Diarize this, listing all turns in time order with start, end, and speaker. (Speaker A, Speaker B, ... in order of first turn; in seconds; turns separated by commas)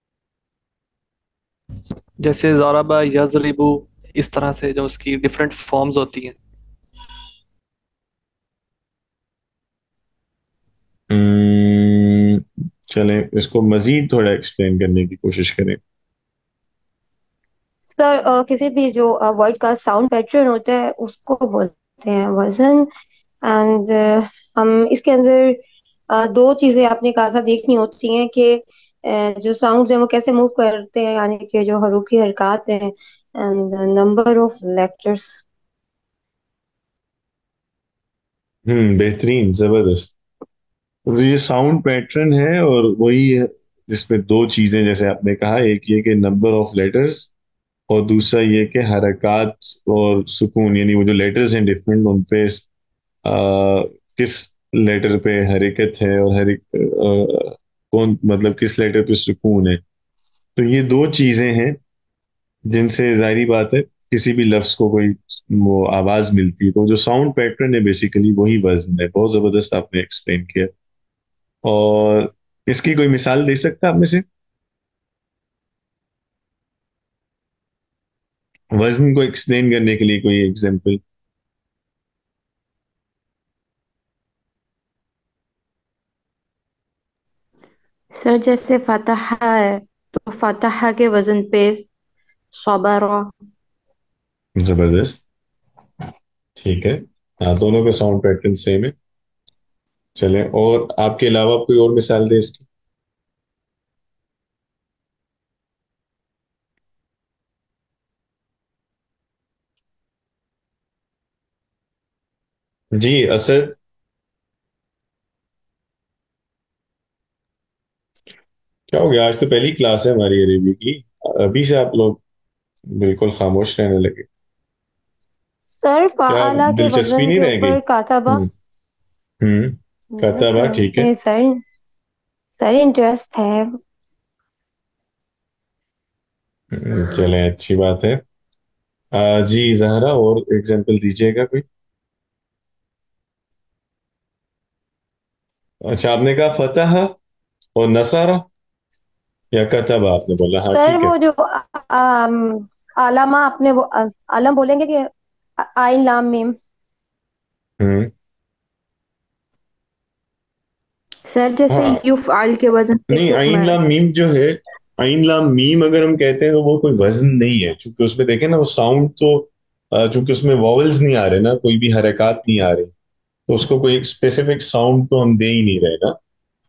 Speaker A: 2.2-6.4, Speaker B: 11.1-15.8, Speaker C: 17.9-22.9, Speaker C: 23.4-25.6, Speaker C: 26.1-35.4, Speaker B: 38.6-40.1, Speaker B: 41.0-47.3, Speaker B: 47.9-52.6, Speaker B: 53.2-59.8, Speaker B: 60.5-61.8, Speaker B: 62.7-70.7, Speaker B: 71.6-74.2, Speaker B: 78.7-81.0, Speaker D: 88.2-91.8, Speaker D: 92.5-93.3, Speaker B: 94.6-95.2, Speaker B: 96.6-98.9, Speaker B: 100.2-102.7, Speaker B: 112.9-113.8, Speaker B: 118.9-122.2, Speaker B: 122.9-124.2, Speaker C: 125.7-128.4, Speaker B: 126.3-128.5, Speaker B: 129.4-131.1, Speaker C: 130.2-131.6, Speaker C: 132.5-133.7, Speaker B: 136.7-138.2, Speaker B: 139.1-141.6, Speaker B: 145.8-147.2, Speaker B: 147.8-148.4, Speaker B: 149.5-151.1, Speaker C: 150.7-155.1, Speaker C: 155.6-156.6, Speaker B: 157.8-158.1, Speaker D: 161.3-163.8, Speaker B: 161.7-162.0, Speaker B: 163.1-172.9, Speaker B: 173.5-176.2